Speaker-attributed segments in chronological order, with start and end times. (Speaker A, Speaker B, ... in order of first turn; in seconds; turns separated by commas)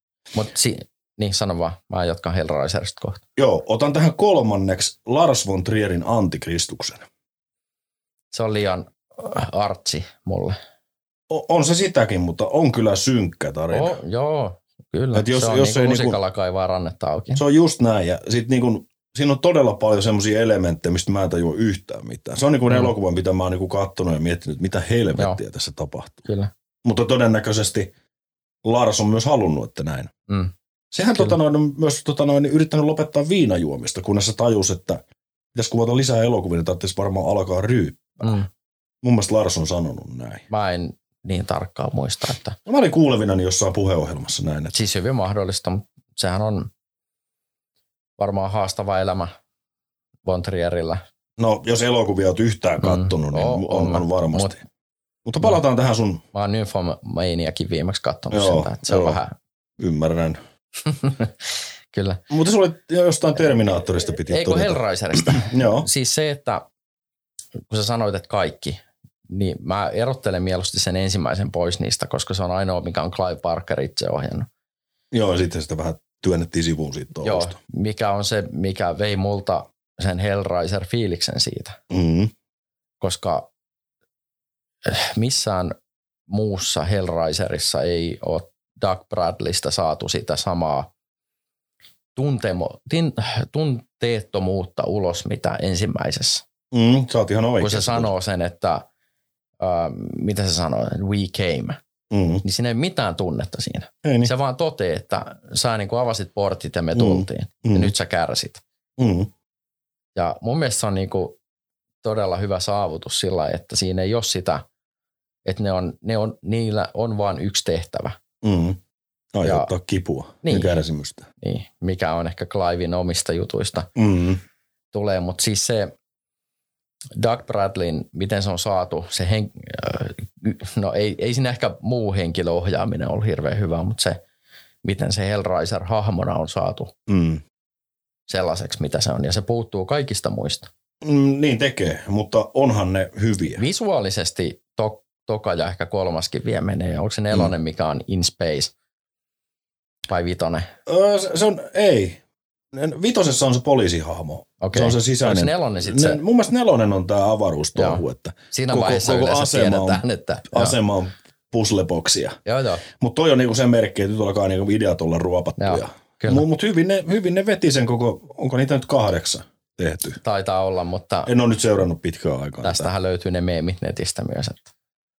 Speaker A: 0.3-3.2, Speaker B: 3.4-7.0, Speaker A: 8.3-10.6, Speaker B: 11.3-14.0, Speaker A: 13.7-17.4, Speaker B: 15.2-16.2, Speaker B: 17.4-26.2, Speaker A: 26.3-26.5, Speaker B: 26.8-27.9, Speaker B: 28.6-30.1, Speaker B: 30.9-35.0, Speaker B: 35.5-38.4, Speaker A: 38.2-38.5, Speaker B: 39.0-40.5, Speaker A: 40.5-42.6, Speaker B: 42.7-44.7, Speaker A: 44.7-46.7, Speaker A: 48.2-49.3, Speaker A: 50.3-51.0, Speaker B: 51.4-54.6, Speaker A: 52.8-54.5, Speaker B: 55.3-56.2, Speaker A: 56.3-59.3, Speaker B: 58.3-59.2, Speaker B: 59.8-60.4, Speaker A: 60.9-62.2, Speaker B: 62.3-65.9, Speaker A: 64.1-66.7, Speaker A: 67.7-74.5, Speaker B: 75.1-77.6, Speaker A: 77.2-81.8, Speaker B: 81.9-82.3, Speaker A: 83.0-83.5, Speaker A: 84.8-85.8, Speaker A: 86.3-90.9, Speaker A: 92.2-96.5, Speaker B: 96.7-98.1, Speaker A: 97.6-98.9, Speaker A: 99.6-101.8, Speaker B: 102.1-102.4, Speaker A: 102.4-108.6, Speaker B: 104.0-104.3, Speaker B: 106.9-107.9, Speaker B: 109.0-109.3, Speaker A: 110.2-111.4, Speaker A: 112.0-114.7, Speaker A: 115.5-118.2, Speaker B: 118.4-118.8, Speaker B: 119.3-121.3, Speaker A: 119.4-119.7, Speaker A: 120.4-120.7, Speaker A: 121.4-123.9, Speaker B: 124.0-124.4, Speaker A: 124.9-125.9, Speaker A: 127.2-134.2, Speaker A: 134.8-136.9, Speaker B: 137.1-137.4, Speaker A: 138.3-140.7, Speaker B: 141.0-143.6, Speaker A: 143.6-148.7, Speaker A: 150.1-150.7, Speaker B: 150.9-152.2, Speaker B: 152.7-170.2, Speaker A: 154.6-156.2, Speaker A: 157.8-160.8, Speaker A: 162.5-162.8, Speaker A: 165.6-166.4, Speaker A: 170.2-171.3, Speaker B: 171.3-172.9, Speaker A: 172.6-174.7